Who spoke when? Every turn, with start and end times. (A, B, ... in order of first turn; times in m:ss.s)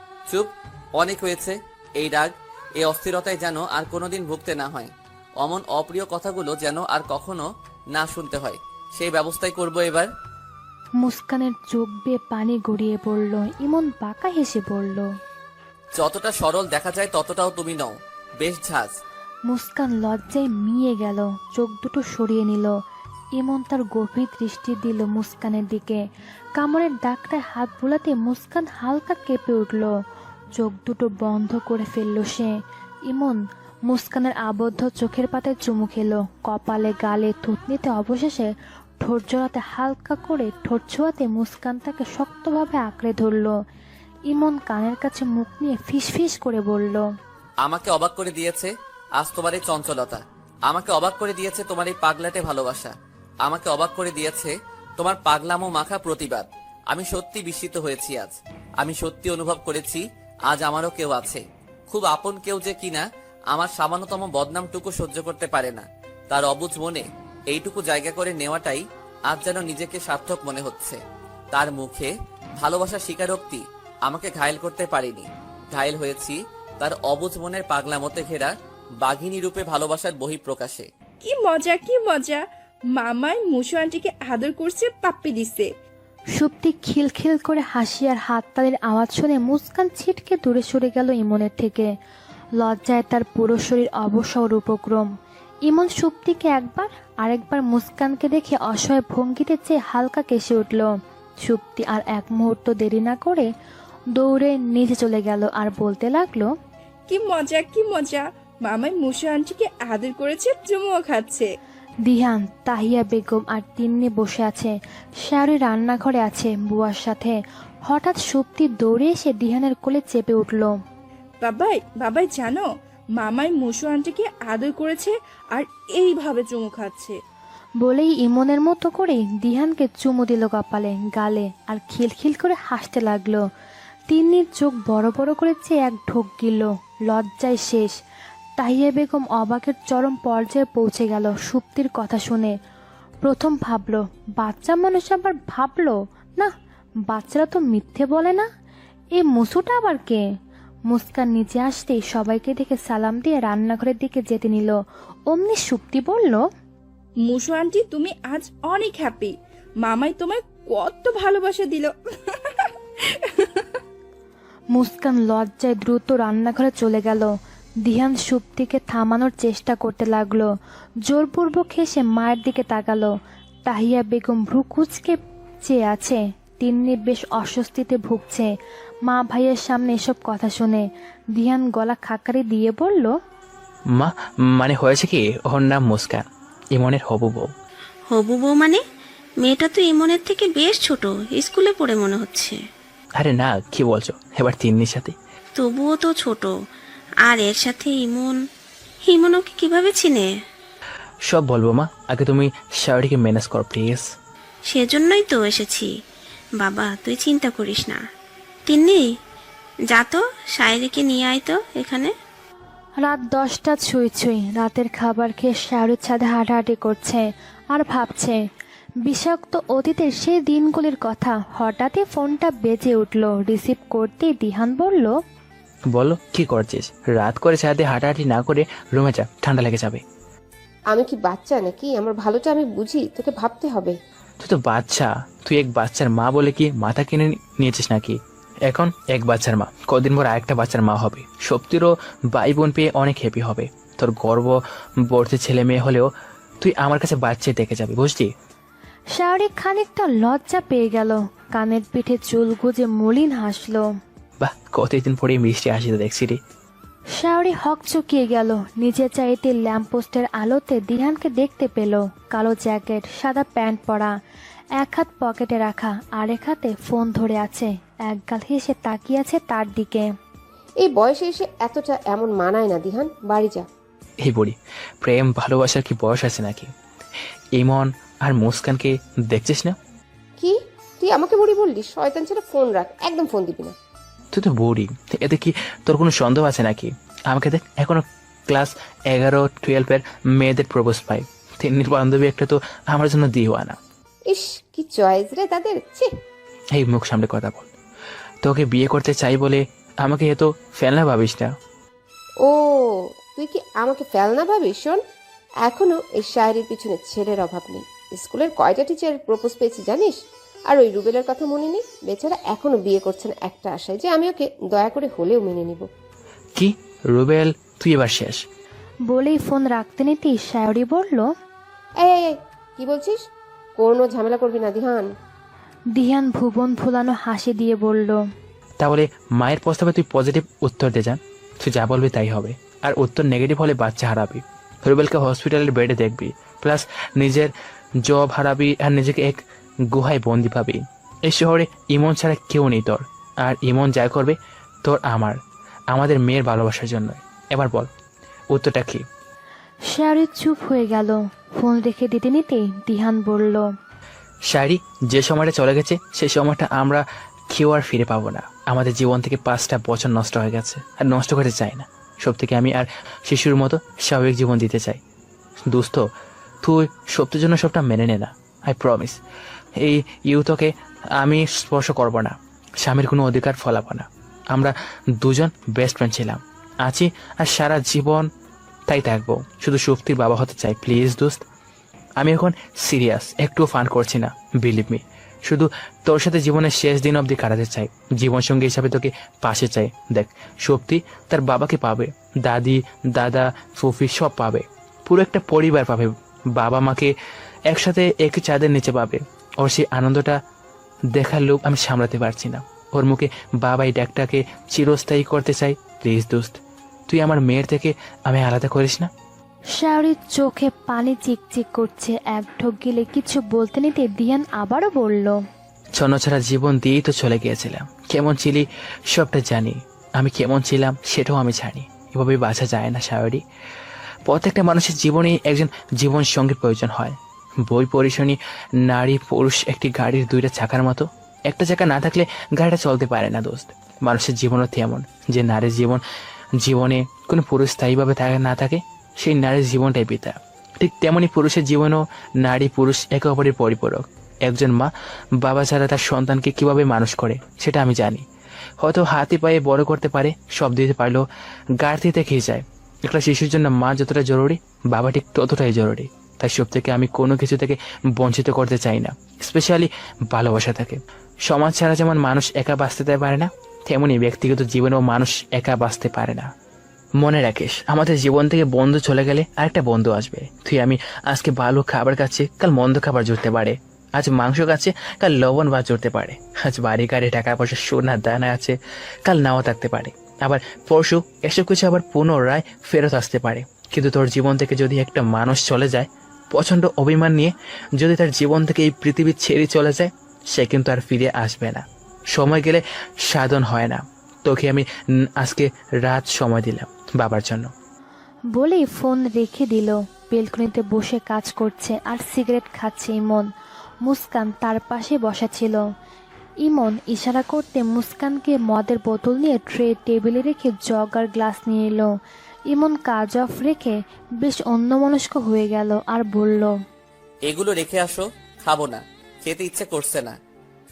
0:00.3-0:10.1 A
0:11.0-0:15.1 B
0:16.0-0:19.0 A
0:19.5-0:22.8 B
0:23.4-0:26.0 B
0:26.6-0:29.9 B
0:30.6-0:32.5 B
0:33.1-0:38.5 B
0:39.0-0:43.6 B
0:44.3-0:47.0 B
0:47.6-1:11.0 A
1:11.5-1:20.9 A
1:21.2-1:25.7 C
1:26.4-1:31.9 B
1:32.6-1:35.1 B
1:35.6-1:40.9 B
1:41.4-1:43.5 B
1:44.1-1:46.5 B
1:47.1-1:51.5 C
1:52.0-2:00.7 B
2:01.4-2:07.2 C
2:07.8-2:13.4 B
2:14.1-2:17.9 B
2:18.6-2:22.5 B
2:23.2-2:26.5 B
2:27.1-2:28.4 B
2:29.2-2:30.2 B
2:30.9-2:34.8 B
2:35.3-2:36.4 B
2:37.2-2:42.7 C
2:43.3-2:43.6 C
2:44.7-2:47.3 B
2:47.8-2:50.5 B
2:51.0-2:53.1 B
2:53.6-2:58.5 B
2:59.1-3:00.8 B
3:01.4-3:03.1 B
3:04.0-3:07.5 D
3:08.1-3:08.8 E
3:09.4-3:12.6 E
3:13.2-3:15.1 D
3:15.6-3:16.5 E
3:17.2-3:18.4 E
3:19.0-3:20.3 E
3:21.3-3:24.0 D
3:24.7-3:25.9 E
3:26.6-3:28.0 E
3:28.7-3:29.1 E
3:29.9-3:32.1 E
3:33.0-3:38.4 B
3:39.0-3:45.1 B
3:45.9-3:50.0 D
3:50.9-3:54.0 F
3:54.4-4:06.1 D
4:06.6-4:08.3 D
4:09.1-4:13.9 B
4:14.4-4:16.4 D
4:17.2-4:24.1 B
4:24.8-4:30.1 B
4:30.8-4:33.6 F
4:34.2-4:36.7 D
4:37.6-4:39.7 D
4:40.4-4:43.7 F
4:44.3-4:53.8 D
4:54.3-4:56.1 F
4:56.7-4:57.7 D
4:58.4-5:01.5 D
5:02.4-5:05.0 F
5:05.6-5:10.2 F
5:10.7-5:15.9 F
5:16.6-5:18.4 D
5:19.1-5:21.3 B
5:22.0-5:23.2 F
5:23.8-5:25.1 F
5:25.9-5:28.2 B
5:28.8-5:37.5 D
5:38.0-5:45.4 D
5:45.9-5:47.9 D
5:48.5-5:49.0 D
5:49.9-5:53.7 B
5:54.5-6:05.0 D
6:05.7-6:06.0 D
6:06.6-6:09.2 D
6:09.8-6:18.3 D
6:18.9-6:21.4 D
6:22.2-6:37.1 D
6:37.7-6:40.4 D
6:41.1-6:46.6 D
6:47.1-6:49.1 D
6:49.8-6:55.4 B
6:56.0-7:03.4 D
7:04.3-7:16.0 D
7:16.6-7:28.2 D
7:28.8-7:31.2 D
7:31.8-7:46.5 D
7:47.2-8:14.9 D
8:15.4-8:17.7 D
8:18.5-8:23.5 B
8:24.0-8:25.8 B
8:26.6-8:32.1 B
8:32.7-8:36.7 B
8:37.5-8:40.4 A